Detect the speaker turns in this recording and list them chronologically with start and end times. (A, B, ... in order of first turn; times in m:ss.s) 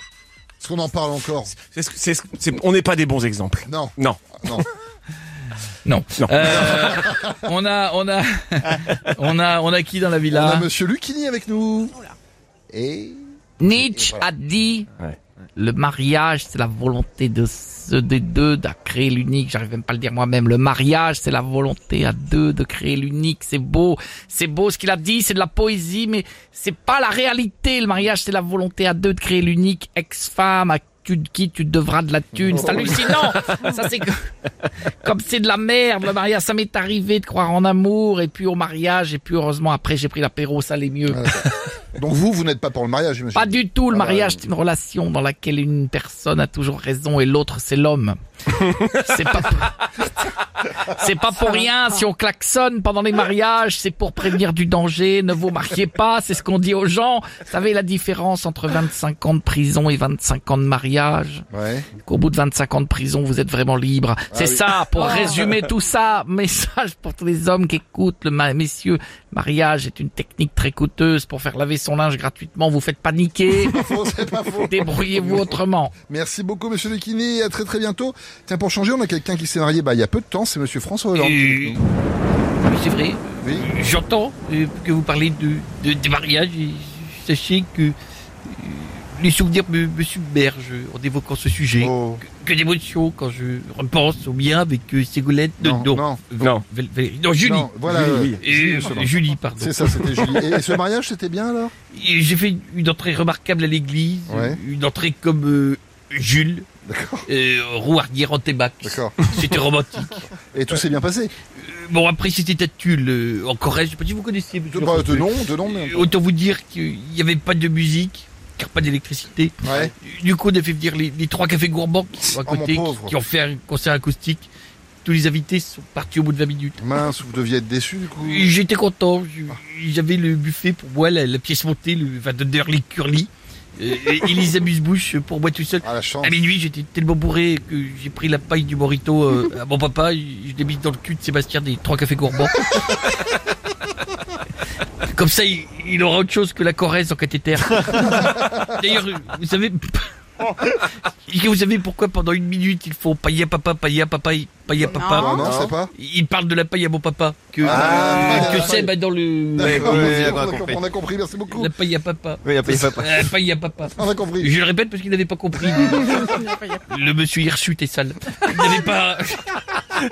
0:00.6-0:01.5 A
0:01.6-0:04.2 B
0:03.7-0:04.7 A
0:05.8-0:10.7 C
0:06.2-0:06.9 B
0:06.4-0:07.3 A
0:10.3-0:12.0 A
0:12.7-0:14.3 A
0:13.6-0:14.9 C
0:15.5-0:34.3 C
0:32.4-0:33.2 A
0:34.8-0:41.5 C
0:41.1-0:44.4 A
0:43.3-1:01.4 C
1:01.5-1:01.9 A
1:02.0-1:13.9 C
1:04.3-1:05.5 A
1:13.6-1:15.5 A
1:14.6-1:15.9 C
1:16.1-1:21.8 A
1:21.1-1:21.8 C
1:22.6-1:37.7 C
1:23.4-1:23.7 A
1:31.8-1:32.2 A
1:35.6-1:36.2 A
1:36.4-1:36.6 B
1:37.4-1:41.7 A
1:37.9-1:38.4 B
1:38.4-1:40.4 C
1:41.9-1:46.6 C
1:44.3-1:44.6 A
1:46.8-1:47.3 A
1:47.2-1:50.3 C
1:48.8-1:49.2 A
1:50.3-1:51.3 A
1:51.5-2:04.5 C
1:54.7-1:56.1 A
1:59.6-1:59.9 A
2:02.4-2:03.2 A
2:05.0-2:06.8 C
2:06.8-2:08.5 A
2:08.2-2:23.0 C
2:15.8-2:16.4 A
2:25.1-2:40.4 C
2:28.1-2:28.5 A
2:35.1-2:35.9 A
2:35.3-2:35.7 B
2:37.6-2:38.8 B
2:37.6-2:38.9 A
2:39.6-2:41.7 A
2:39.6-2:40.8 B
2:41.5-2:49.6 C
2:42.4-2:43.3 B
2:43.9-2:44.5 A